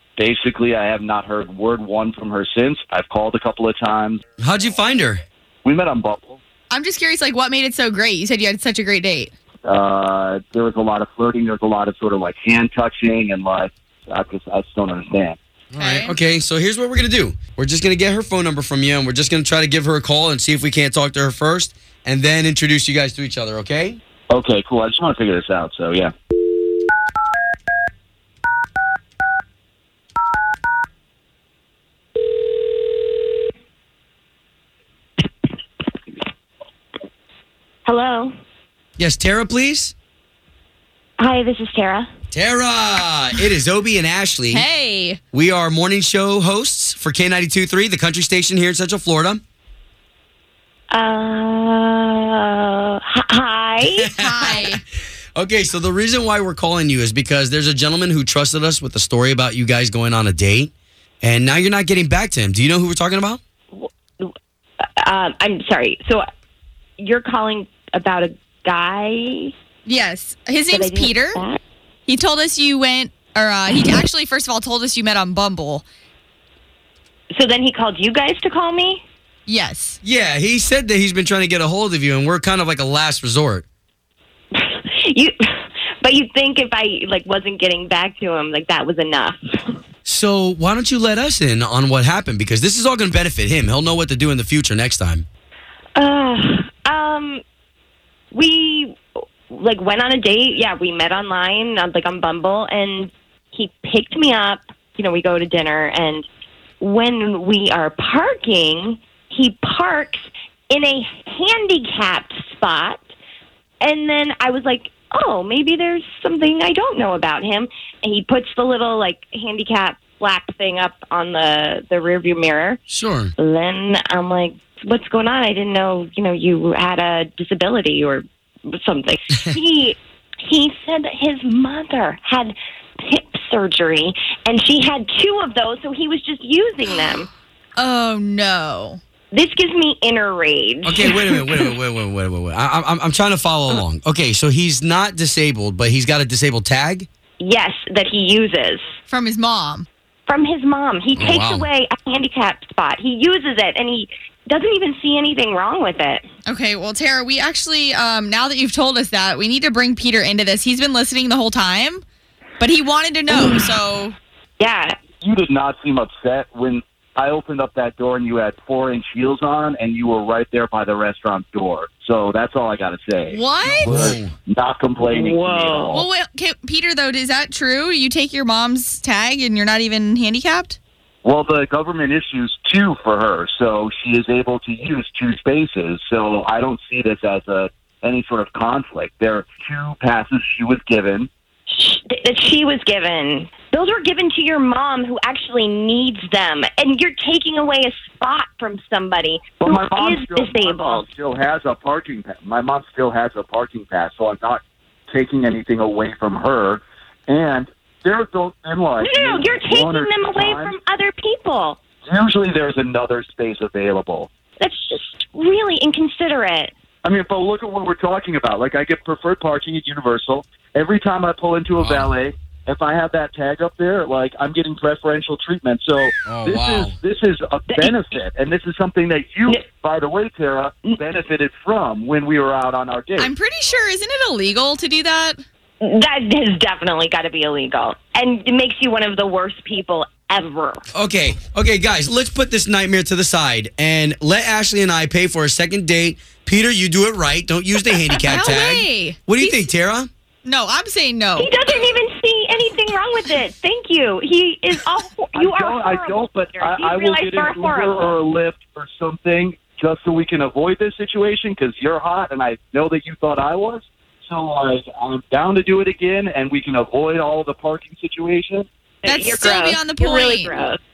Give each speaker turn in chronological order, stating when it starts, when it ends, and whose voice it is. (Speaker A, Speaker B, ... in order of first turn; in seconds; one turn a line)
Speaker A: 0.2-4.2
Speaker B: 4.4-5.2
Speaker A: 5.6-6.4
Speaker C: 6.7-9.3
Speaker A: 9.7-15.4
Speaker B: 15.7-24.0
Speaker C: 15.8-16.1
Speaker A: 24.3-26.1
Speaker D: 37.9-38.3
Speaker B: 39.0-39.9
Speaker D: 41.2-42.1
Speaker B: 42.3-44.6
Speaker C: 44.5-45.2
Speaker B: 45.3-49.4
Speaker D: 50.9-54.6
Speaker B: 53.8-54.7
Speaker C: 54.2-54.8
Speaker B: 55.4-60.7
Speaker B: 61.2-63.4
Speaker D: 63.7-64.3
Speaker D: 65.0-66.2
Speaker D: 67.0-69.5
Speaker C: 69.9-71.4
Speaker D: 70.7-71.6
Speaker C: 72.1-75.8
Speaker D: 77.3-79.0
Speaker C: 79.5-80.0
Speaker B: 80.0-83.7
Speaker D: 84.5-89.8
Speaker B: 90.0-95.2
Speaker D: 96.0-97.4
Speaker D: 98.3-106.3
Speaker D: 106.8-113.0
Speaker D: 113.8-122.8
Speaker B: 122.9-123.3
Speaker D: 123.4-137.3
Speaker C: 137.8-139.0
Speaker D: 139.3-141.1
Speaker B: 140.8-147.1
Speaker D: 147.4-148.9
Speaker C: 149.1-149.9
Speaker D: 150.3-156.2
Speaker B: 151.2-151.7
Speaker C: 156.5-162.0
Speaker C: 162.6-164.2
Speaker D: 164.6-165.0
Speaker A: 165.2-176.0
Speaker C: 173.3-174.2
Speaker B: 173.6-174.3
Speaker D: 175.1-176.0
Speaker C: 175.9-180.8
Speaker A: 181.2-191.3
Speaker D: 191.7-201.1
Speaker A: 199.6-210.8
Speaker D: 209.0-211.8
Speaker A: 212.1-214.3
Speaker D: 214.6-216.7
Speaker A: 217.0-233.3
Speaker B: 221.8-222.1
Speaker B: 226.3-226.9
Speaker C: 233.2-235.4
Speaker D: 235.8-240.8
Speaker B: 240.9-250.1
Speaker C: 248.2-249.7
Speaker C: 250.4-251.5
Speaker D: 251.4-258.1
Speaker A: 255.3-268.7
Speaker D: 269.0-270.8
Speaker C: 269.1-270.5